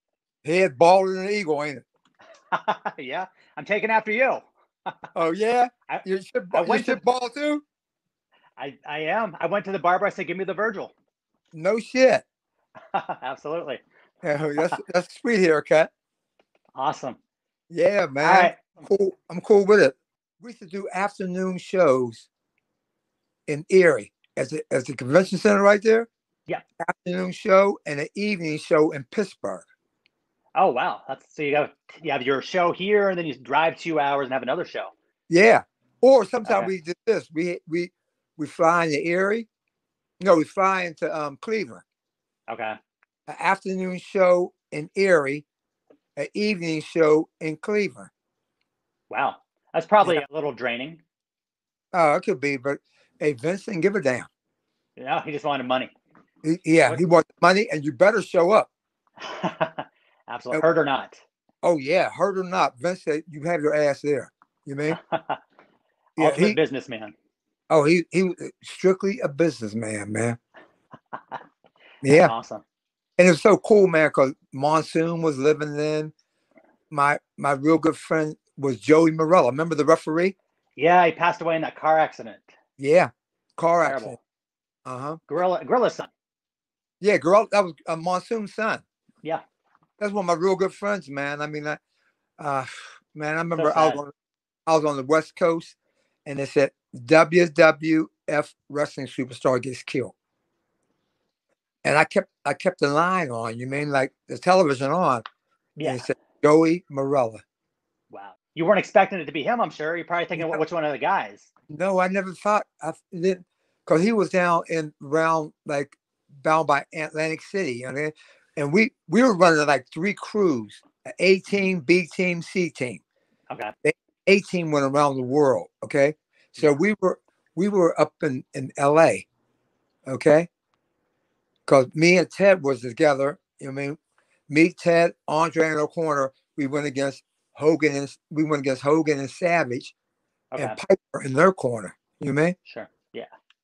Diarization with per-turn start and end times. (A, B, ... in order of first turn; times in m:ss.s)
0:00.4-0:01.8 A
0:02.5-0:04.9 B
0:05.1-0:07.6 A
0:05.9-0:07.0 B
0:08.6-0:10.9 B
0:11.5-0:12.2 A
0:12.9-0:13.8 B
0:14.2-0:15.9 A
0:16.8-0:17.2 B
0:17.7-0:22.3 A
0:18.2-0:18.8 B
0:23.5-0:26.1 A
0:26.8-0:29.6 A
0:30.6-0:34.9 B
0:35.3-0:39.5 A
0:36.4-0:36.7 B
0:40.2-0:41.8 A
0:42.5-0:42.8 B
0:43.3-0:45.4 A
0:46.2-0:48.1 A
0:49.1-0:51.0 B
0:51.9-0:54.3 A
0:55.0-0:55.9 B
0:56.4-0:58.7 A
0:59.2-1:01.2 B
1:01.6-1:05.0 A
1:04.9-1:05.4 B
1:06.2-1:06.6 A
1:06.2-1:07.1 B
1:07.7-1:10.4 A
1:12.0-1:12.3 A
1:12.1-1:12.6 B
1:13.2-1:16.1 A
1:16.9-1:20.3 A
1:20.8-1:22.5 B
1:22.8-1:24.2 A
1:23.8-1:24.2 B
1:24.8-1:25.2 A
1:25.3-1:26.1 B
1:27.0-1:28.8 A
1:30.0-1:31.8 A
1:32.4-1:34.1 A
1:33.6-1:34.0 B
1:34.6-1:40.1 A
1:41.8-1:45.2 A
1:45.8-1:46.1 B
1:45.8-1:47.4 A
1:48.1-1:51.5 B
1:50.3-1:50.6 A
1:51.7-2:03.0 A
2:03.8-2:09.3 A
2:10.0-2:10.5 A
2:11.7-2:14.0 A
2:14.5-2:19.9 A
2:20.5-2:20.8 B
2:20.6-2:22.5 A
2:22.6-2:23.3 B